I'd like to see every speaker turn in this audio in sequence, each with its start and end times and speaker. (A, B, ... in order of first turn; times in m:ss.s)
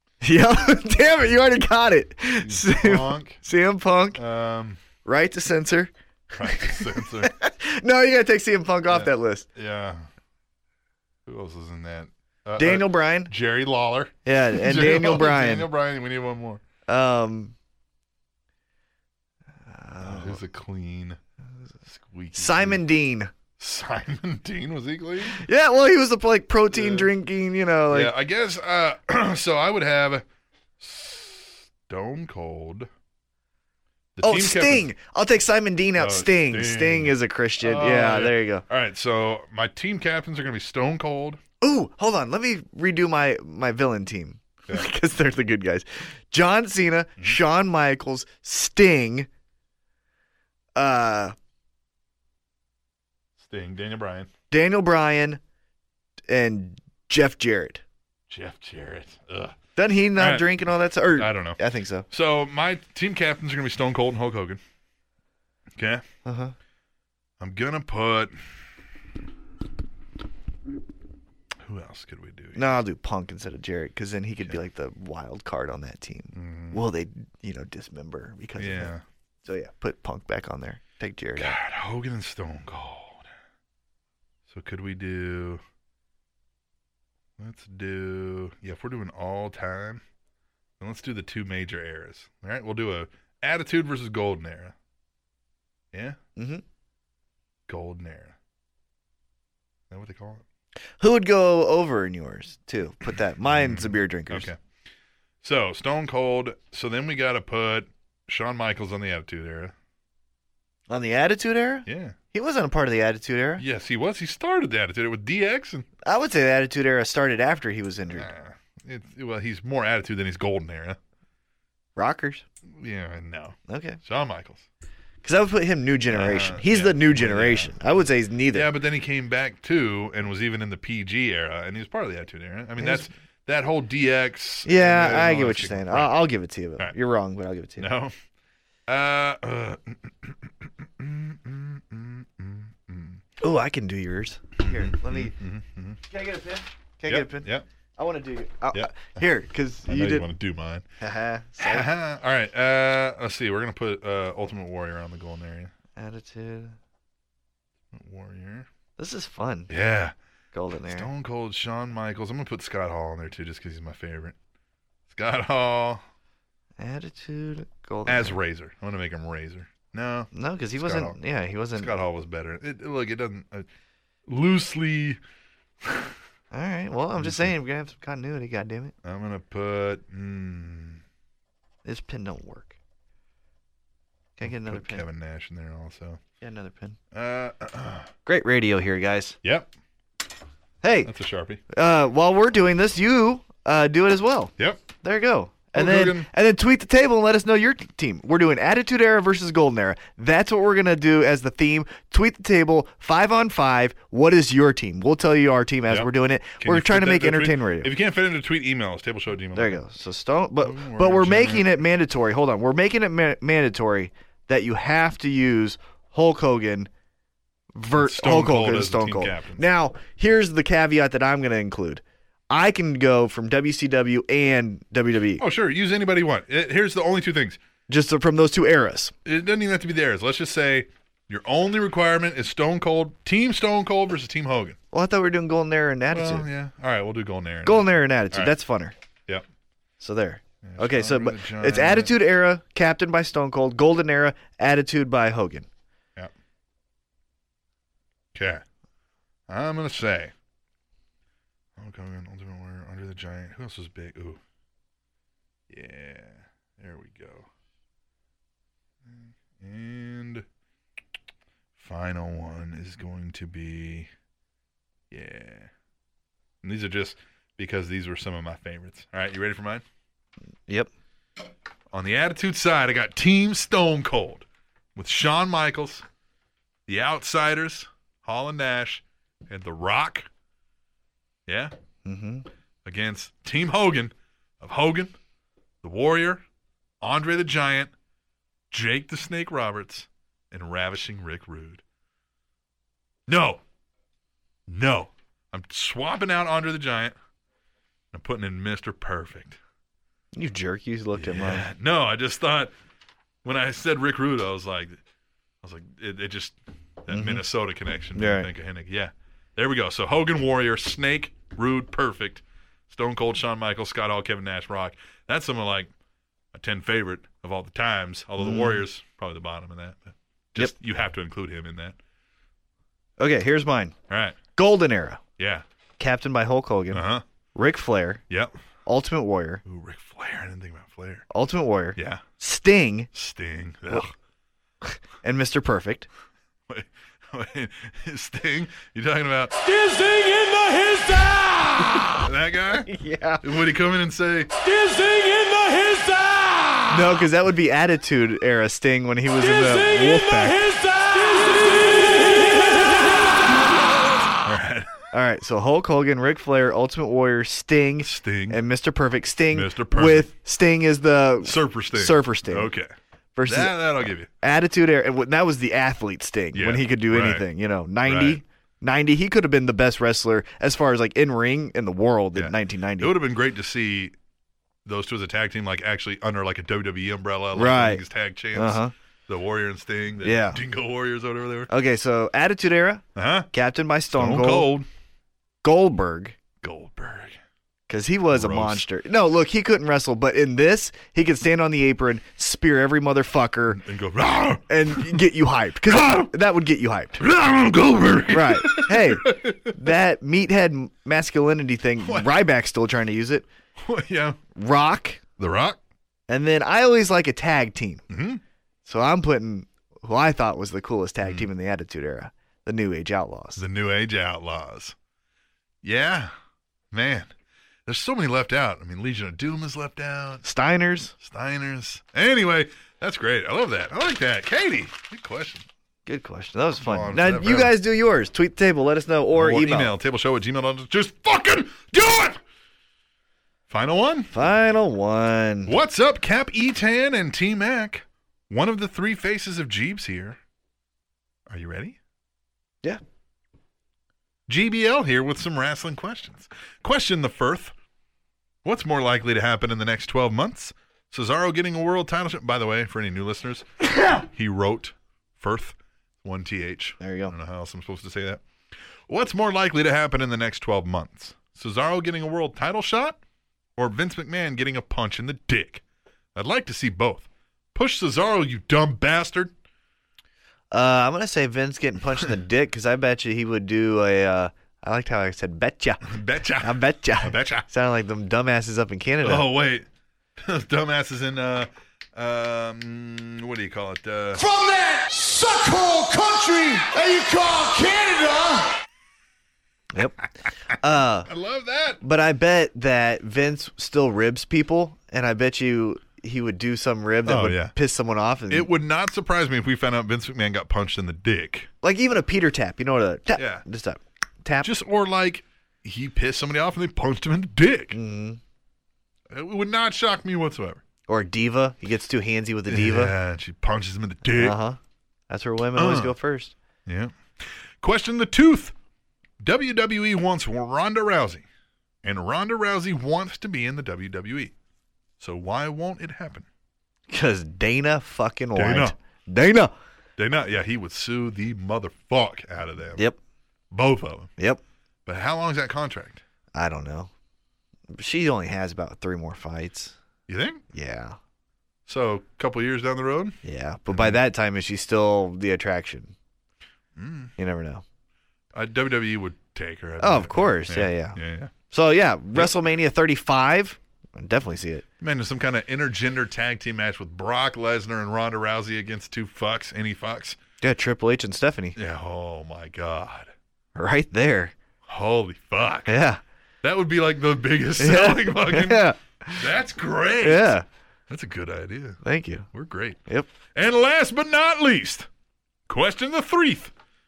0:00.2-0:04.2 A
0:02.4-0:03.4 B
0:04.2-0:04.8 B
0:05.0-0:09.5 A
0:06.3-0:07.3 B
0:08.9-0:10.1 B
0:11.3-0:16.6 B
0:12.6-0:13.3 A
0:14.2-0:15.7 A
0:16.9-0:17.5 A
0:19.7-0:20.4 A
0:20.0-0:21.2 B
0:21.9-0:22.8 B
0:22.4-0:23.3 A
0:23.6-0:25.4 B
0:25.2-0:28.1 A
0:26.7-0:27.1 B
0:27.9-0:30.2 B
0:30.8-0:32.9 B
0:34.2-0:34.9 B
0:34.2-0:38.6 A
0:36.0-0:41.4 B
0:41.6-0:49.3 A
0:50.8-0:51.4 A
0:53.4-0:54.3 B
0:54.5-0:55.4 A
0:56.3-0:57.8 A
0:58.3-0:59.6 B
0:59.8-1:02.1 A
1:00.2-1:00.6 B
1:01.2-1:01.6 B
1:02.1-1:04.6 B
1:05.8-1:06.0 B
1:06.2-1:06.6 A
1:07.4-1:08.3 B
1:11.6-1:12.6 B
1:12.6-1:21.5 A
1:16.3-1:16.8 B
1:18.6-1:19.0 B
1:21.4-1:23.3 B
1:24.5-1:25.6 B
1:27.4-1:30.0 B
1:30.8-1:34.8 B
1:35.9-1:36.2 B
1:36.4-1:36.6 A
1:37.7-1:38.4 B
1:39.9-1:40.4 B
1:41.0-1:44.5 A
1:43.4-1:44.6 B
1:45.4-1:49.8 B
1:50.9-1:53.6 A
1:51.9-1:52.2 B
1:53.6-1:55.9 B
1:56.0-1:58.3 A
1:58.1-2:01.0 B
2:02.0-2:02.4 A
2:02.7-2:04.7 B
2:03.7-2:04.0 A
2:05.2-2:08.7 A
2:06.1-2:07.9 B
2:08.5-2:16.1 B
2:12.8-2:13.1 A
2:14.6-2:17.9 A
2:17.8-2:18.2 B
2:18.9-2:23.2 B
2:23.4-2:25.3 A
2:24.6-2:26.0 B
2:26.1-2:30.3 A
2:27.1-2:27.6 B
2:28.7-2:29.1 B
2:29.9-2:30.8 B
2:31.0-2:31.9 A
2:31.6-2:35.7 B
2:36.0-2:36.8 A
2:37.9-2:38.7 B
2:39.0-2:39.7 A
2:39.7-2:40.2 B
2:40.5-2:41.1 A
2:40.8-2:44.4 B
2:45.1-2:46.0 B
2:46.8-2:48.4 A
2:48.1-2:51.2 B
2:50.3-2:51.9 A
2:51.8-2:53.7 B
2:54.3-2:55.2 B
2:55.8-2:56.1 B
2:56.5-2:58.9 A
2:57.2-2:57.5 B
2:59.0-3:01.0 B
3:01.8-3:02.8 A
3:04.4-3:05.0 A
3:04.4-3:06.2 B
3:06.4-3:07.0 A
3:07.1-3:08.1 B
3:08.3-3:09.4 A
3:09.4-3:09.7 B
3:10.8-3:11.1 A
3:11.0-3:11.6 B
3:11.7-3:27.9 A
3:14.6-3:14.8 B
3:15.7-3:16.3 B
3:25.9-3:29.8 B
3:29.5-3:36.9 A
3:30.6-3:31.8 B
3:37.8-3:45.4 A
3:38.0-3:39.6 B
3:45.4-3:47.6 B
3:47.9-3:49.1 A
3:49.2-3:54.8 B
3:54.9-3:56.5 A
3:56.1-3:58.5 B
3:57.6-3:59.0 A
4:00.0-4:05.7 A
4:00.6-4:02.2 B
4:08.3-4:08.6 B
4:09.5-4:10.3 B
4:11.8-4:14.4 B
4:15.7-4:17.5 B
4:19.0-4:20.4 B
4:21.8-4:24.1 B
4:25.1-4:25.7 B
4:26.6-4:29.8 B
4:31.9-4:36.0 B
4:36.9-4:40.3 B
4:41.5-4:41.7 B
4:42.0-4:42.5 A
4:42.8-4:45.2 B
4:45.8-4:46.4 B
4:47.0-4:47.9 B
4:48.7-4:51.8 B
4:53.3-4:53.6 B
4:54.7-4:57.2 B
4:58.1-4:59.6 B
5:00.3-5:01.7 A
5:01.2-5:02.7 B
5:03.4-5:05.0 B
5:05.6-5:15.9 B
5:07.1-5:07.4 A
5:08.2-5:08.5 A
5:16.5-5:22.0 B
5:18.4-5:18.8 A
5:23.2-5:23.9 A
5:24.1-5:24.4 B
5:24.6-5:25.2 A
5:25.4-5:25.6 B
5:26.0-5:28.2 A
5:26.9-5:27.2 B
5:28.9-5:29.6 A
5:29.6-5:31.2 B
5:31.3-5:33.1 A
5:32.0-5:32.2 B
5:33.1-5:34.1 B
5:35.2-5:36.1 A
5:36.7-5:39.5 B
5:39.6-5:42.1 C
5:41.8-5:42.9 B
5:42.9-5:43.4 A
5:43.4-5:44.5 B
5:44.6-5:46.9 C
5:46.9-5:50.6 A
5:49.4-5:53.2 C
5:54.4-5:54.9 B
5:55.1-6:02.7 A
5:58.0-5:58.6 B
5:59.5-6:00.3 B
6:01.4-6:02.9 B
6:03.4-6:03.8 A
6:03.5-6:04.3 B
6:04.4-6:13.2 A
6:06.5-6:07.5 B
6:08.0-6:08.4 B
6:12.3-6:14.2 B
6:14.8-6:21.7 B
6:17.6-6:18.0 A
6:18.5-6:18.9 A
6:20.2-6:20.6 A
6:21.7-6:24.7 A
6:23.2-6:23.5 B
6:24.1-6:24.9 B
6:25.6-6:26.4 A
6:26.6-6:27.4 B
6:27.9-6:33.8 A
6:28.3-6:28.8 B
6:33.7-6:35.2 B
6:34.7-6:37.2 A
6:35.9-6:36.3 B
6:37.2-6:39.8 B
6:38.3-6:43.5 A
6:42.0-6:42.3 B
6:43.8-6:44.4 B
6:44.5-6:45.2 A
6:45.4-6:45.8 B
6:46.3-6:48.0 A
6:48.1-6:48.4 B
6:48.8-6:53.6 A
6:51.2-6:51.5 B
6:53.6-6:55.0 B
6:55.8-6:56.3 B
6:56.9-6:57.3 B
6:57.9-7:00.4 B
7:00.4-7:01.2 A
7:01.2-7:05.7 B
7:06.1-7:09.9 A
7:06.8-7:07.7 B
7:09.3-7:12.4 B
7:13.7-7:14.3 B
7:14.3-7:15.7 A
7:15.7-7:20.4 B
7:21.5-7:22.0 B
7:24.5-7:27.7 B
7:28.6-7:38.4 B
7:37.0-7:37.3 A
7:39.1-7:43.2 B
7:43.8-7:45.8 B
7:46.4-7:49.5 B
7:50.7-7:59.5 A
7:56.0-7:57.7 B
7:59.2-7:59.9 B
8:00.4-8:04.4 B
8:04.4-8:08.8 C
8:09.9-8:11.3 A
8:11.3-8:12.0 B
8:12.0-8:18.7 A
8:17.2-8:17.7 B
8:18.5-8:21.7 B
8:21.8-8:24.7 A
8:23.4-8:23.6 B
8:24.6-8:28.0 B
8:27.9-8:28.4 A
8:29.3-8:30.8 B
8:31.1-8:33.1 A
8:32.7-8:34.6 B
8:34.2-8:34.8 A
8:35.3-8:36.5 A
8:35.8-8:36.1 B
8:36.9-8:38.7 B
8:39.4-8:41.4 B
8:42.0-8:44.5 B
8:45.2-8:46.5 B
8:47.1-8:49.7 A
8:48.6-8:49.0 B
8:50.2-8:53.0 B
8:53.7-8:54.3 B
8:55.1-8:56.2 B
8:56.5-8:57.1 A
8:57.9-9:00.0 A
9:00.3-9:00.6 B
9:00.7-9:01.2 A
9:01.9-9:03.4 B
9:03.4-9:06.1 A
9:03.9-9:04.2 B
9:07.0-9:07.3 B
9:07.4-9:07.8 A
9:08.5-9:11.5 B
9:10.0-9:11.2 A
9:11.7-9:14.8 A
9:15.0-9:20.4 B
9:20.6-9:21.8 A
9:21.8-9:23.3 B
9:23.8-9:24.5 A
9:24.9-9:26.0 B
9:25.9-9:26.2 A
9:26.6-9:30.6 B
9:27.8-9:29.4 A
9:30.2-9:30.6 A
9:31.1-9:32.0 B
9:32.0-9:32.5 A
9:32.5-9:33.0 B
9:33.6-9:35.1 B
9:35.7-9:36.7 B